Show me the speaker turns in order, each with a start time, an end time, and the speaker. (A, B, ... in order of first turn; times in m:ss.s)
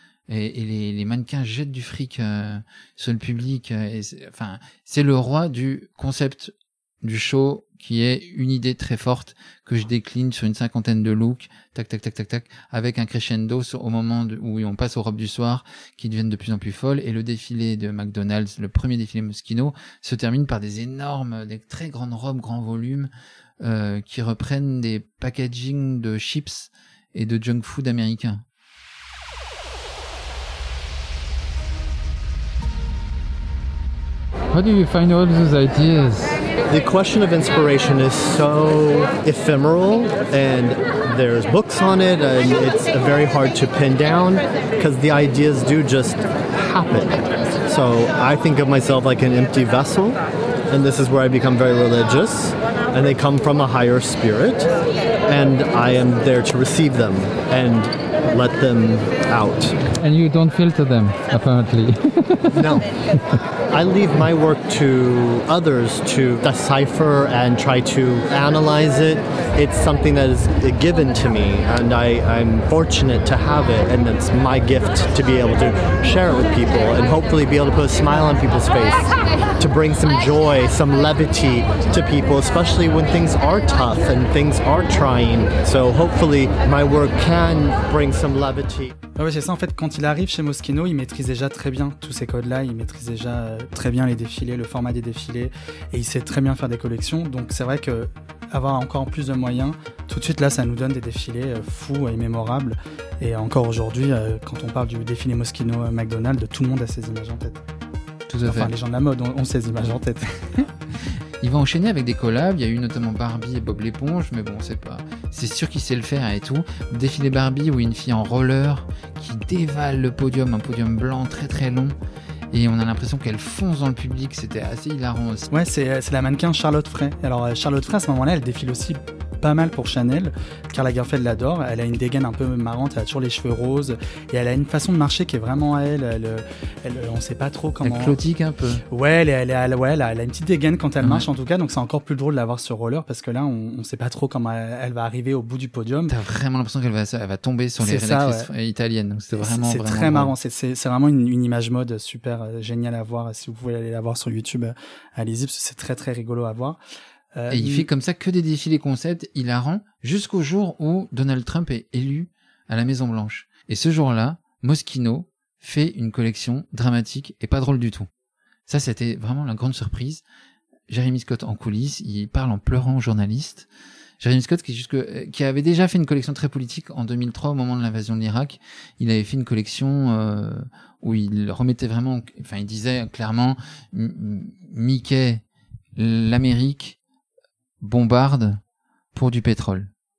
0:00.3-0:28.4 A
0:34.5-0:36.4 A
0:36.7-0:50.2 B
0:50.7-0:54.7 B
0:55.3-0:59.8 B
0:59.9-1:02.7 A
1:02.5-1:02.9 B
1:03.7-1:28.9 B
1:29.2-1:47.6 C
1:48.3-1:48.7 A
1:48.4-1:50.3 C
1:51.4-2:01.9 A
2:02.5-2:05.5 A
2:05.5-2:18.2 C
2:17.8-2:18.8 A
2:18.9-2:26.1 C
2:21.0-2:21.3 A
2:26.1-2:30.4 A
2:27.8-2:28.5 C
2:29.4-2:36.8 C
2:37.4-2:37.9 C
2:37.5-2:48.1 A
2:48.7-2:50.2 A
2:50.9-2:53.7 A
2:54.2-3:05.4 A
3:06.0-3:07.0 A
3:07.8-3:08.6 A
3:09.2-3:09.9 A